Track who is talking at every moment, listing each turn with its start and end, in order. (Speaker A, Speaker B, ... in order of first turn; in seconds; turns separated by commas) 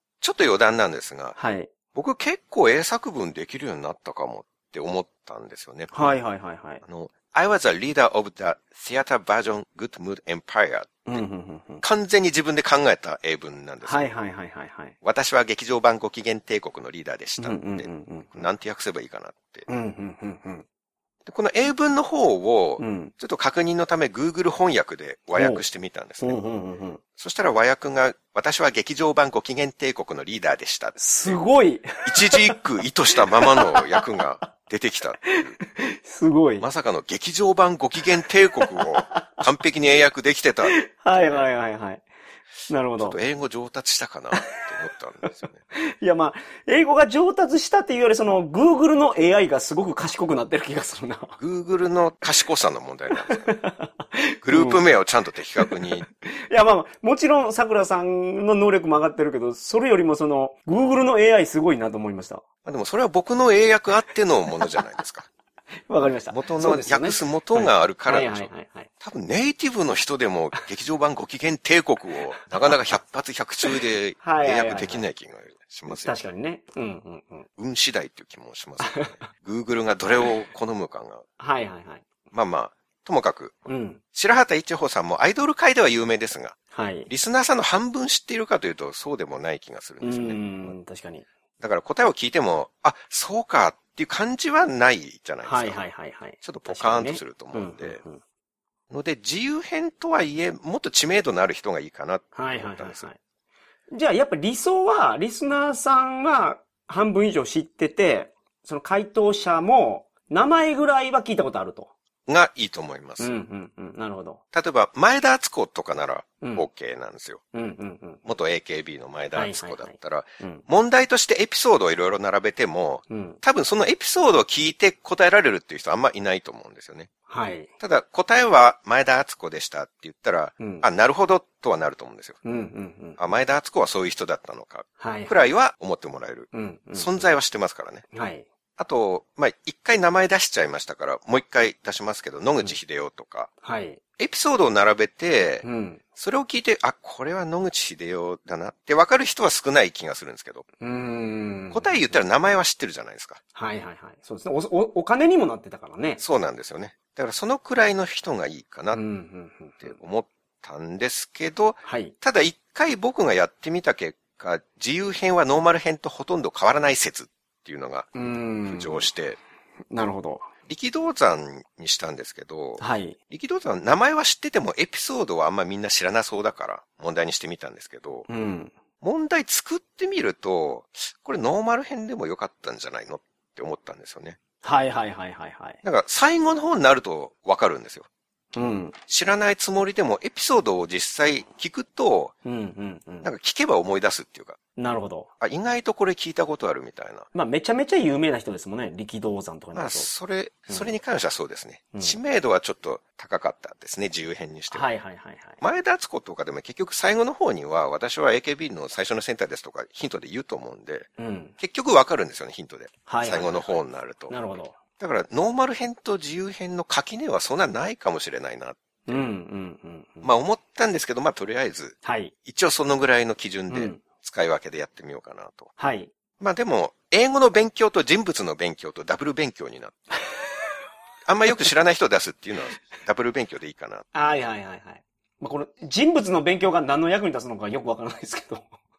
Speaker A: 0.2-1.4, Speaker B: 1.4-1.7, Speaker A: 1.9-6.1, Speaker B: 5.9-6.8, Speaker A: 6.8-11.2, Speaker B: 11.1-11.8, Speaker A: 11.8-14.1, Speaker B: 13.8-14.9, Speaker A: 15.0-19.7, Speaker B: 17.4-18.5, Speaker B: 19.7-20.7, Speaker A: 21.2-26.4, Speaker B: 22.8-23.1, Speaker B: 25.3-25.6, Speaker B: 26.2-27.0, Speaker A: 27.2-31.4, Speaker B: 31.0-32.4, Speaker A: 32.0-35.6, Speaker B: 33.4-34.0, Speaker B: 35.3-36.7, Speaker A: 36.6-41.5, Speaker B: 38.7-39.5, Speaker B: 40.7-42.0, Speaker B: 42.7-43.2, Speaker A: 43.0-45.6, Speaker B: 45.3-51.4, Speaker A: 51.4-53.5, Speaker B: 53.1-54.8, Speaker A: 54.4-56.1, Speaker B: 55.6-62.4, Speaker A: 62.6-65.3, Speaker B: 65.9-68.9, Speaker A: 66.3-68.5, Speaker A: 69.0-76.1, Speaker B: 72.3-72.8, Speaker B: 74.2-75.0, Speaker B: 75.9-77.5, Speaker A: 77.6-81.2, Speaker B: 78.8-79.2, Speaker B: 81.4-82.1, Speaker A: 82.3-86.6, Speaker B: 83.7-84.0, Speaker B: 86.7-87.1, Speaker A: 87.1-90.8, Speaker B: 90.0-91.3, Speaker A: 91.6-95.9, Speaker B: 95.4-98.2, Speaker A: 96.4-98.0, Speaker A: 98.9-103.1, Speaker B: 102.3-103.2, Speaker B: 103.9-111.9, Speaker A: 112.3-113.3, Speaker B: 113.2-114.4, Speaker A: 114.5-117.4, Speaker B: 116.4-116.7, Speaker B: 117.5-118.2, Speaker A: 118.2-127.1, Speaker B: 119.3-120.7, Speaker B: 123.1-123.4, Speaker B: 127.3-127.7, Speaker A: 127.8-132.4, Speaker B: 130.6-130.9, Speaker B: 132.4-133.2, Speaker A: 133.2-138.0, Speaker B: 135.0-135.4, Speaker B: 136.5-137.3, Speaker B: 138.1-138.5, Speaker A: 138.8-143.5, Speaker B: 143.6-144.0, Speaker A: 144.2-150.7, Speaker B: 145.6-146.0, Speaker B: 150.8-152.2, Speaker A: 151.7-153.4, Speaker B: 153.6-156.2, Speaker A: 156.2-159.0, Speaker B: 158.9-160.0, Speaker A: 159.8-169.4, Speaker B: 161.8-162.2, Speaker B: 168.2-169.1, Speaker B: 169.9-170.5, Speaker A: 170.7-178.3, Speaker B: 172.8-173.2, Speaker B: 178.3-178.7, Speaker A: 179.0-184.4, Speaker B: 184.6-185.8, Speaker A: 185.8-188.1, Speaker B: 188.6-189.0, Speaker A: 189.1-192.3, Speaker B: 192.4-193.3, Speaker A: 193.2-194.6, Speaker B: 194.8-195.3, Speaker A: 195.4-197.3, Speaker B: 197.3-200.1, Speaker A: 199.7-204.9, Speaker B: 204.7-205.6, Speaker A: 205.6-219.2, Speaker B: 211.2-211.6, Speaker B: 213.1-214.8, Speaker B: 219.1-220.3, Speaker A: 220.2-225.7, Speaker B: 222.0-222.3, Speaker B: 223.7-224.0, Speaker B: 225.8-226.1, Speaker A: 226.4-229.9, Speaker A: 231.3-234.1, Speaker B: 234.1-238.7